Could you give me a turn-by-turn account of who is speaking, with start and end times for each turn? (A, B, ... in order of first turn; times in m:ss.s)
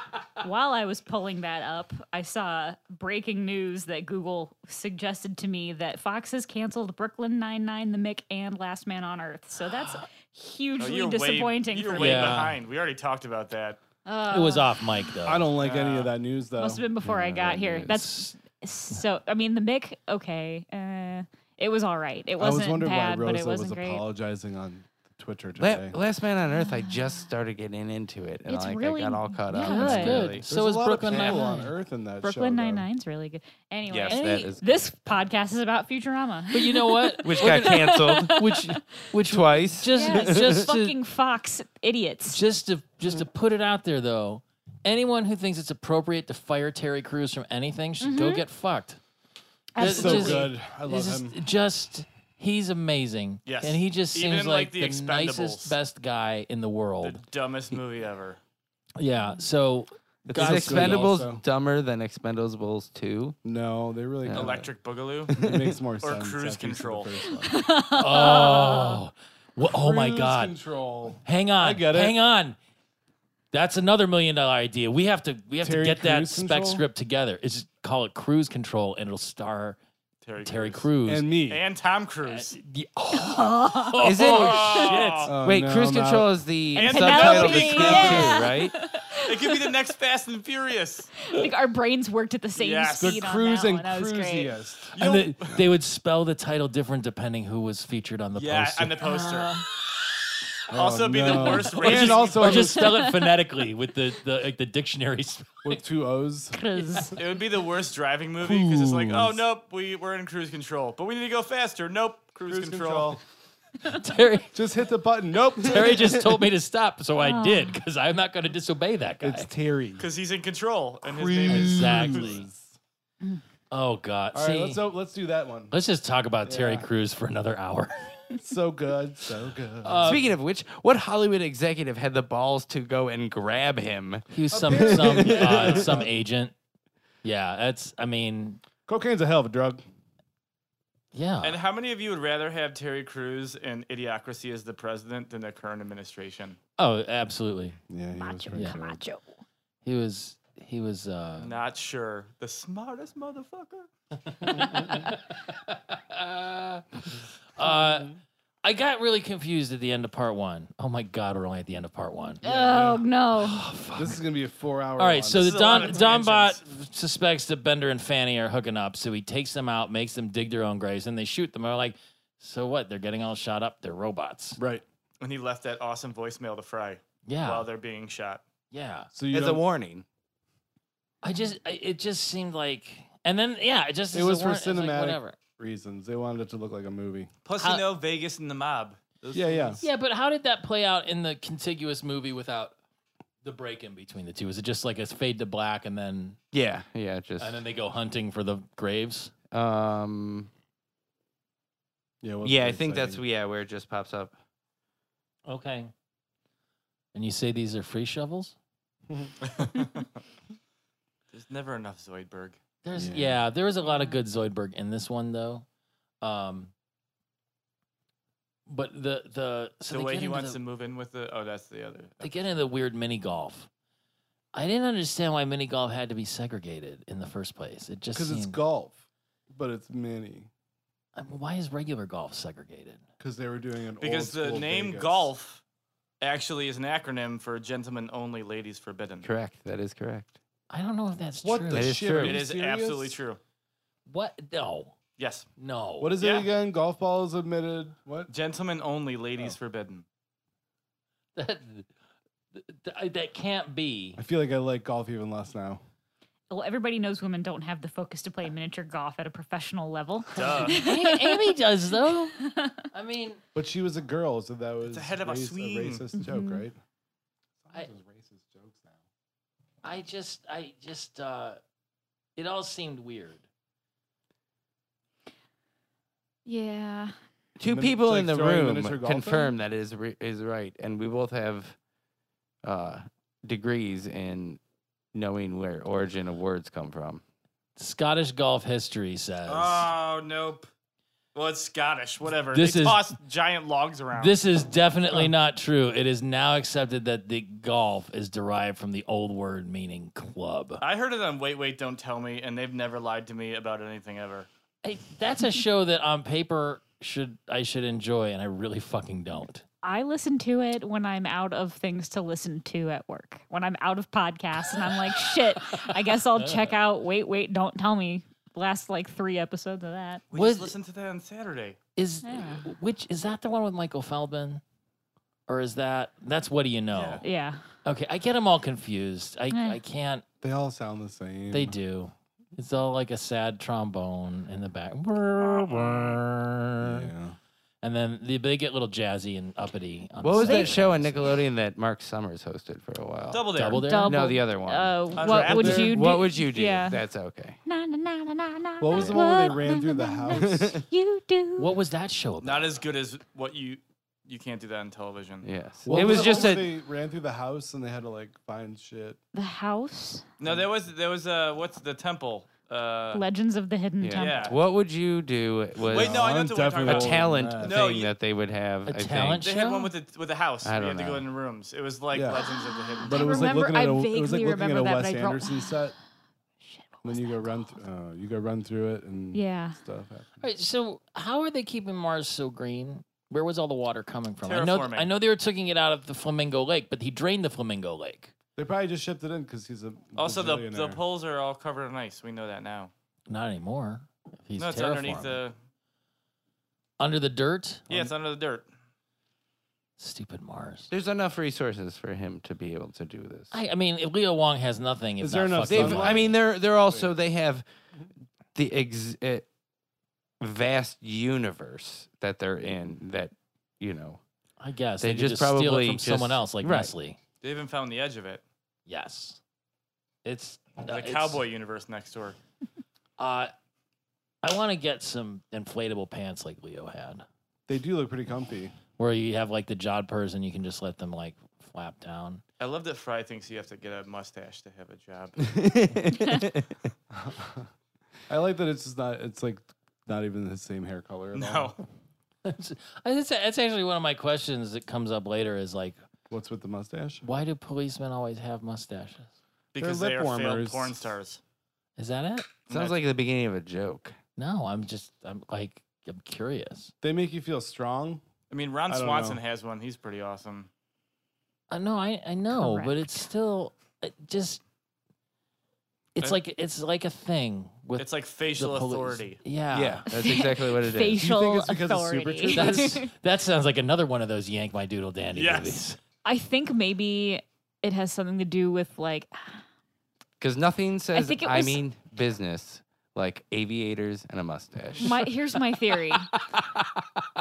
0:00.4-0:12.4 A
0:09.7-0:10.0 B
0:10.8-0:13.8 C
0:11.9-0:12.6 B
0:14.0-0:15.1 A
0:14.3-0:15.6 B
0:15.2-0:17.7 D
0:15.6-0:16.1 C
0:16.6-0:24.0 A
0:17.8-0:18.3 B
0:22.4-0:26.0 D
0:25.6-0:30.5 E
0:26.5-0:27.2 A
0:28.4-0:30.4 A
0:29.5-0:31.7 B
0:30.5-0:32.8 D
0:31.1-0:31.6 A
0:32.2-0:38.8 A
0:33.9-0:34.9 E
0:34.1-0:34.4 B
0:36.5-0:41.0 B
0:37.2-0:38.4 E
0:39.2-0:40.7 E
0:39.9-0:42.4 A
0:42.3-0:49.0 B
0:48.0-0:48.4 A
0:49.7-0:50.5 A
0:49.8-0:57.2 B
0:49.8-0:51.4 D
0:53.4-0:55.8 C
0:57.0-0:58.4 C
0:59.0-1:01.2 B
1:00.3-1:01.4 D
1:00.3-1:03.4 E
1:03.4-1:04.7 D
1:04.2-1:04.6 E
1:04.3-1:05.4 C
1:05.3-1:07.6 D
1:05.3-1:05.8 E
1:06.0-1:07.1 C
1:07.4-1:09.0 A
1:08.0-1:10.6 B
1:09.6-1:12.2 D
1:11.2-1:12.6 B
1:13.5-1:19.8 B
1:15.6-1:16.8 D
1:20.2-1:20.9 C
1:20.4-1:21.3 B
1:21.0-1:21.6 D
1:21.4-1:22.6 C
1:22.2-1:25.3 B
1:23.1-1:24.6 A
1:24.0-1:28.7 E
1:24.2-1:25.4 C
1:25.2-1:26.3 D
1:26.7-1:28.3 C
1:26.7-1:29.7 A
1:27.5-1:28.4 D
1:29.2-1:31.1 C
1:31.2-1:34.5 A
1:32.6-1:33.2 C
1:33.0-1:35.0 D
1:34.9-1:35.6 C
1:34.9-1:39.1 B
1:38.3-1:39.5 C
1:39.0-1:39.6 A
1:40.7-1:43.0 D
1:40.7-1:42.7 C
1:41.8-1:45.8 B
1:42.8-1:43.3 A
1:45.6-1:46.6 D
1:46.5-1:47.2 A
1:47.2-1:53.2 C
1:48.4-1:49.4 D
1:52.5-1:53.2 D
1:53.8-1:54.6 B
1:54.5-1:56.2 D
1:55.6-1:59.5 B
1:57.2-1:57.8 A
1:59.2-2:00.1 D
2:00.0-2:02.3 C
2:01.0-2:02.8 D
2:01.4-2:02.5 B
2:03.7-2:04.8 B
2:04.3-2:05.7 D
2:05.7-2:08.3 B
2:06.4-2:06.9 D
2:08.4-2:10.2 D
2:09.8-2:10.3 B
2:10.0-2:16.0 E
2:14.3-2:16.5 B
2:14.5-2:16.1 D
2:17.2-2:18.6 B
2:18.9-2:19.8 D
2:21.1-2:21.6 B
2:21.4-2:26.6 C
2:26.8-2:27.8 B
2:27.9-2:29.0 D
2:28.2-2:29.4 A
2:28.5-2:28.8 B
2:29.8-2:31.6 B
2:31.4-2:33.9 C
2:34.3-2:42.4 B
2:37.6-2:38.2 D
2:42.4-2:43.0 D
2:42.4-2:43.6 A
2:43.3-2:44.2 B
2:44.0-2:46.0 D
2:45.0-2:54.6 B
2:45.3-2:46.6 C
2:54.6-2:54.8 D
2:55.2-2:58.4 C
2:57.2-2:57.7 B
2:58.7-2:59.1 B
2:59.1-2:59.7 D
2:59.3-3:00.0 E
3:01.2-3:05.4 B
3:04.1-3:07.3 D
3:07.4-3:09.8 C
3:07.6-3:07.8 B
3:09.3-3:09.8 D
3:09.8-3:12.7 B
3:13.4-3:16.4 B
3:16.5-3:17.6 E
3:17.4-3:19.3 B
3:19.5-3:20.5 E
3:22.2-3:23.2 D
3:22.4-3:24.4 E
3:25.4-3:25.9 B
3:27.1-3:28.6 B
3:29.4-3:30.1 C
3:31.3-3:32.6 C
3:32.8-3:35.6 B
3:32.9-3:33.4 D
3:33.8-3:34.2 A
3:36.2-3:36.7 B
3:38.7-3:40.6 B
3:39.9-3:42.4 C
3:42.2-3:43.7 B
3:44.5-3:48.6 B
3:48.1-3:50.5 D
3:51.1-3:53.0 B
3:53.2-3:55.3 D
3:54.0-3:55.6 C
3:56.2-3:59.3 C
3:59.2-4:00.4 E
4:00.7-4:02.1 B
4:01.4-4:03.2 D
4:01.7-4:02.4 E
4:02.2-4:03.4 C
4:04.1-4:04.9 B
4:05.2-4:05.5 C
4:05.6-4:06.1 B
4:06.0-4:08.3 D
4:06.2-4:06.5 C
4:08.3-4:10.0 C
4:11.4-4:11.9 B
4:12.5-4:14.2 B
4:14.2-4:15.8 D
4:16.5-4:21.5 A
4:20.3-4:20.8 C
4:20.6-4:23.4 B
4:22.4-4:22.8 A
4:23.5-4:26.8 D
4:24.8-4:26.0 C
4:26.2-4:26.7 A
4:27.6-4:29.0 D
4:29.8-4:31.6 B
4:32.4-4:33.4 B
4:36.4-4:37.1 A
4:37.6-4:41.8 E
4:37.6-4:39.5 D
4:42.6-4:44.6 E
4:45.1-4:47.2 E
4:47.8-4:49.9 B
4:49.5-4:50.7 C
4:51.3-4:54.3 C
4:52.5-4:53.1 B
4:54.1-5:00.8 B
5:00.8-5:04.5 C
5:04.8-5:09.6 B
5:09.8-5:20.2 A
5:14.7-5:16.7 B
5:20.3-5:21.8 C
5:20.3-5:20.7 B
5:22.0-5:24.6 B
5:22.2-5:22.7 A
5:25.5-5:27.2 B
5:26.9-5:27.2 C
5:27.2-5:27.6 A
5:27.8-5:30.2 B
5:29.5-5:29.8 A
5:30.4-5:31.8 D
5:31.5-5:37.1 B
5:35.6-5:36.2 C
5:36.8-5:37.4 D
5:37.8-5:41.4 B
5:40.2-5:47.6 E
5:40.4-5:40.8 A
5:43.3-5:43.8 C
5:43.5-5:44.3 B
5:43.7-5:47.0 A
5:45.2-5:46.0 C
5:45.3-5:45.9 D
5:47.6-5:51.8 A
5:48.8-5:50.8 D
5:48.9-5:49.2 E
5:50.3-5:50.8 E
5:51.6-5:52.8 B
5:52.4-5:55.5 C
5:55.4-5:56.7 E
5:55.8-5:59.2 D
5:59.3-6:00.2 A
6:00.4-6:03.2 C
6:03.1-6:04.5 A
6:04.0-6:09.4 E
6:04.1-6:04.6 C
6:05.8-6:08.1 C
6:05.9-6:07.8 D
6:08.8-6:09.9 B
6:09.4-6:13.6 C
6:10.6-6:11.2 E
6:12.1-6:12.4 D
6:12.3-6:15.8 A
6:13.0-6:15.9 D
6:16.6-6:17.7 A
6:17.0-6:20.4 D
6:19.3-6:19.8 A
6:20.4-6:28.3 B
6:24.4-6:25.1 C
6:28.6-6:31.0 D
6:30.2-6:32.9 C
6:33.3-6:35.4 B
6:34.6-6:35.5 C
6:37.0-6:38.1 B
6:37.9-6:38.6 C
6:40.0-6:40.9 B
6:40.9-6:43.6 E
6:43.5-6:46.4 B
6:45.2-6:47.1 D
6:45.6-6:47.6 E
6:48.5-6:49.5 E
6:50.4-6:54.2 E
6:54.6-6:57.2 B
6:55.0-6:56.9 E
6:57.4-6:58.4 C
6:58.9-6:59.4 B
7:00.2-7:01.4 B
7:00.9-7:02.4 C
7:03.2-7:03.5 B
7:04.4-7:07.2 B
7:07.7-7:08.8 D
7:08.9-7:12.4 B
7:12.6-7:15.5 C
7:15.4-7:16.8 E
7:17.1-7:17.6 D
7:18.3-7:21.7 D
7:21.3-7:21.8 C
7:22.4-7:26.0 B
7:26.3-7:27.2 D
7:27.2-7:29.3 B
7:29.7-7:31.4 C
7:29.8-7:31.1 D
7:32.0-7:32.6 B
7:32.7-7:33.0 C
7:32.7-7:34.2 E
7:34.4-7:36.9 B
7:37.0-7:38.2 D
7:38.5-7:40.7 C
7:38.9-7:39.4 D
7:41.7-7:44.6 B
7:42.5-7:43.3 A
7:46.2-7:50.1 B
7:48.0-7:49.4 C
7:49.7-7:51.2 E
7:50.1-7:53.1 A
7:51.2-7:53.0 D
7:52.5-7:56.0 B
7:55.3-7:55.8 C
7:56.2-7:59.6 A
8:00.4-8:05.3 E
8:01.1-8:01.8 A
8:05.0-8:06.3 A